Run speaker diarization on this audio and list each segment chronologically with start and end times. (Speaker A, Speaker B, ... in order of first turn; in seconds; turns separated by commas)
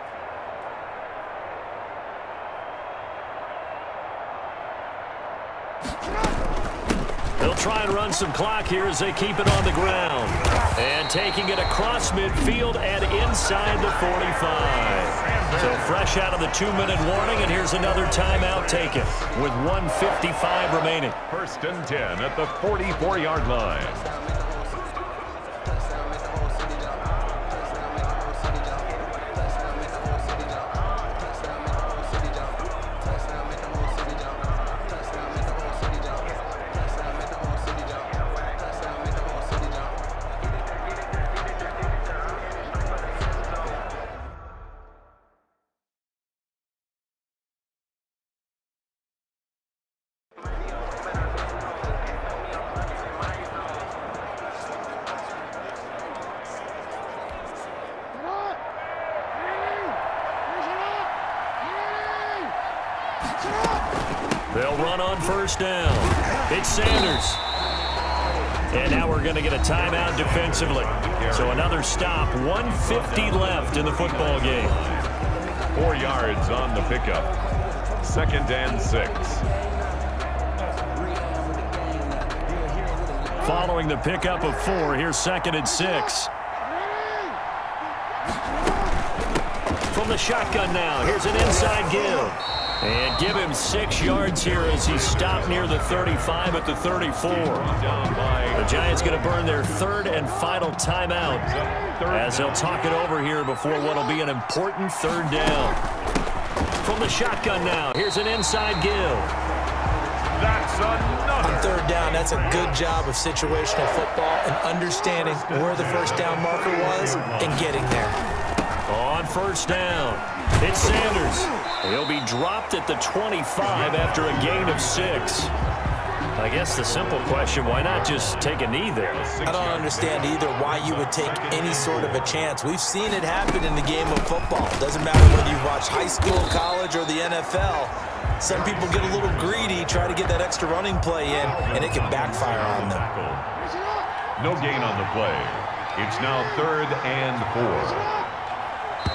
Speaker A: 7.4-21.2, Speaker B: 15.2-16.1, Speaker B: 18.4-19.0, Speaker B: 21.3-24.2, Speaker A: 64.5-67.4, Speaker A: 68.7-74.8, Speaker B: 69.8-71.8, Speaker B: 72.8-75.1, Speaker B: 75.7-77.3, Speaker B: 78.0-79.5, Speaker A: 83.3-86.3, Speaker A: 89.9-97.7, Speaker B: 94.5-96.2, Speaker B: 97.3-98.7, Speaker A: 98.5-101.5, Speaker B: 101.4-102.8, Speaker A: 102.1-105.8, Speaker A: 106.8-109.3, Speaker B: 110.3-112.9, Speaker C: 111.4-118.2, Speaker B: 115.0-117.7, Speaker A: 118.9-125.5, Speaker B: 123.7-125.5, Speaker A: 126.4-129.2, Speaker B: 129.1-132.4, Speaker C: 129.4-143.1, Speaker B: 138.4-140.1, Speaker B: 141.4-143.5, Speaker B: 144.4-148.2